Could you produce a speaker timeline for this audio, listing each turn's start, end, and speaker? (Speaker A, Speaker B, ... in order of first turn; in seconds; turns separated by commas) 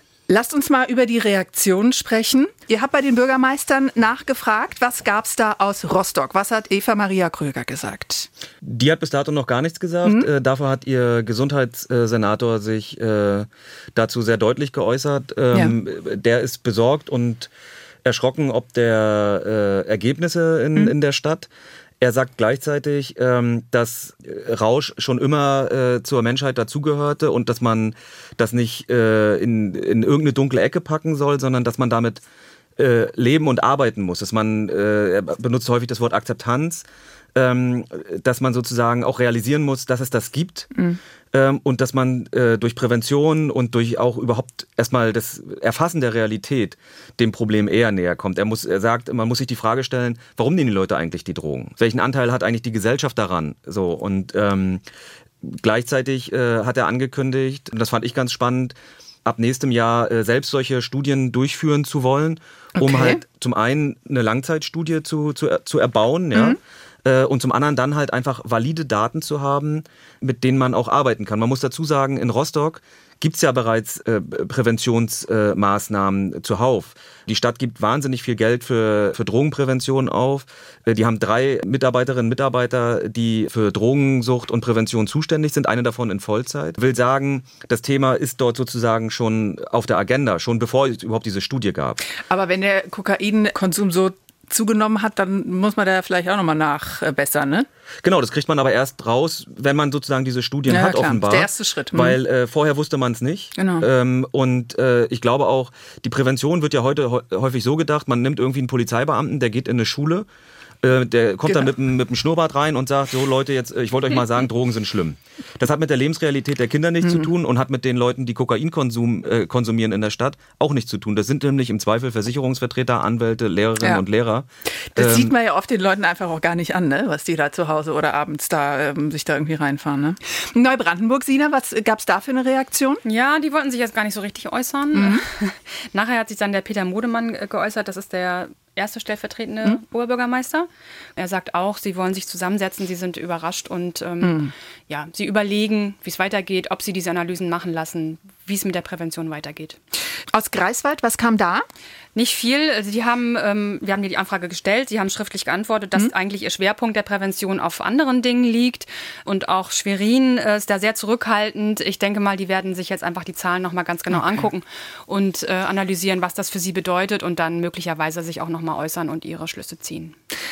Speaker A: 0.3-8.3, Speaker B: 8.6-17.5, Speaker B: 18.0-21.5, Speaker B: 22.0-32.2, Speaker B: 32.8-40.7, Speaker B: 41.3-54.8, Speaker B: 55.4-92.0, Speaker A: 62.8-63.2, Speaker A: 92.3-97.7, Speaker B: 98.0-110.3, Speaker A: 100.7-102.2, Speaker A: 103.6-103.9, Speaker B: 110.8-125.3, Speaker A: 117.0-117.3, Speaker A: 124.9-133.0, Speaker C: 133.0-149.8, Speaker A: 134.9-135.2, Speaker A: 144.2-144.5, Speaker A: 150.3-151.6, Speaker C: 152.1-170.2, Speaker A: 164.1-164.4